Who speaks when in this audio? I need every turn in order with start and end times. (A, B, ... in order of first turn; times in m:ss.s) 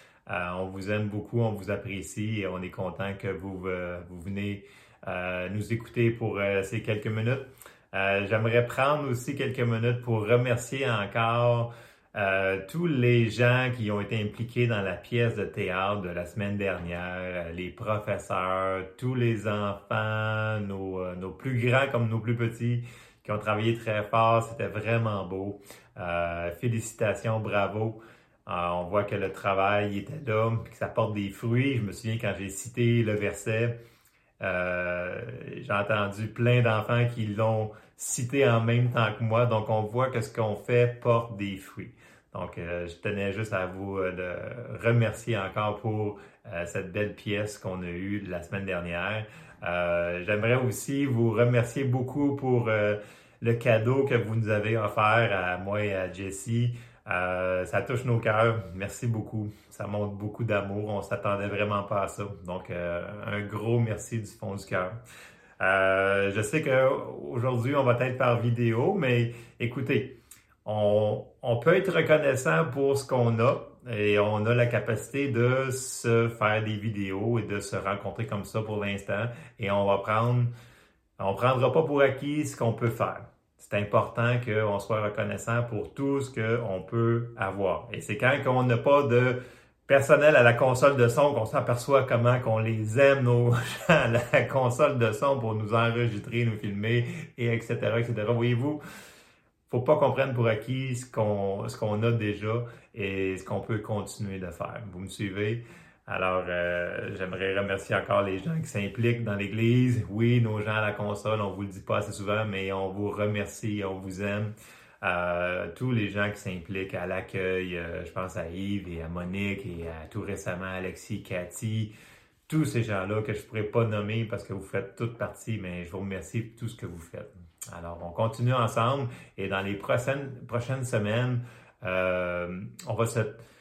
0:00.3-0:33.8 A
0:34.4-1:05.0 A
1:05.6-1:20.5 A
1:21.2-1:38.8 A
1:39.7-2:01.9 A
2:02.5-2:13.4 A